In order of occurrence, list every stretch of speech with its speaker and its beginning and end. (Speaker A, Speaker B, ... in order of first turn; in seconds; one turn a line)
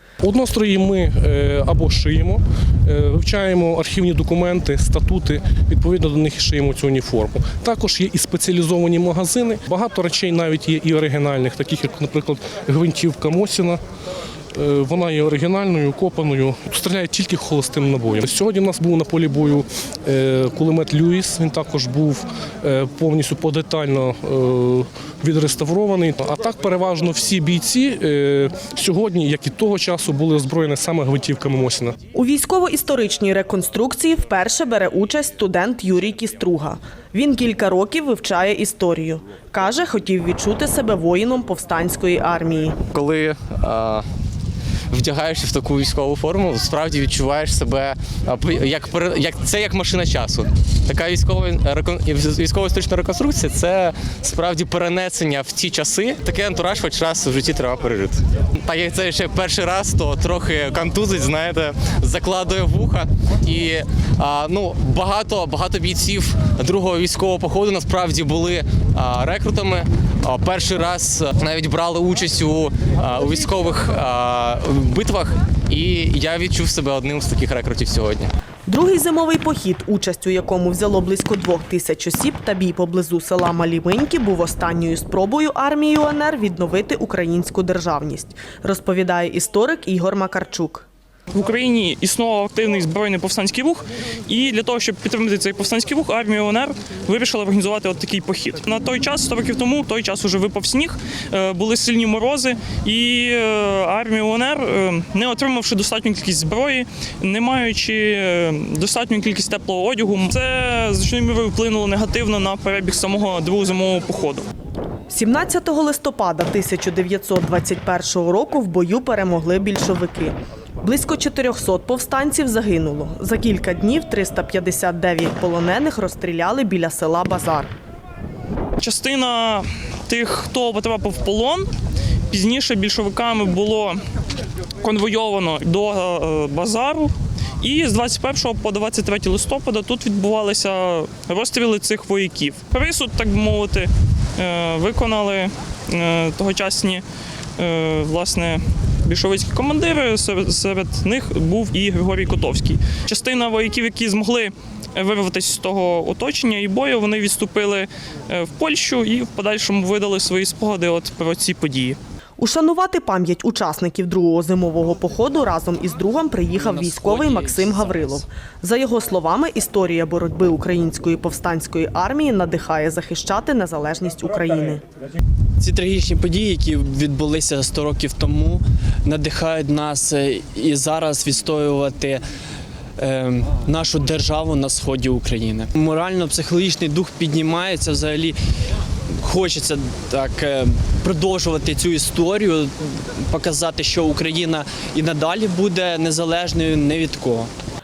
Speaker A: 0.2-13.8
Speaker A: 14.5-32.0
Speaker B: 32.1-42.8
Speaker C: 42.9-44.0
Speaker C: 44.9-78.3
Speaker B: 78.7-90.9
Speaker D: 91.3-114.5
Speaker B: 115.1-127.7
Speaker D: 128.8-131.7
Speaker D: 132.3-134.0
Speaker D: 134.8-147.0
Speaker D: 147.6-162.0
Speaker B: 162.4-174.8
Speaker E: 166.6-168.2
Speaker E: 175.6-182.2
Speaker E: 183.0-188.3
Speaker E: 189.2-197.5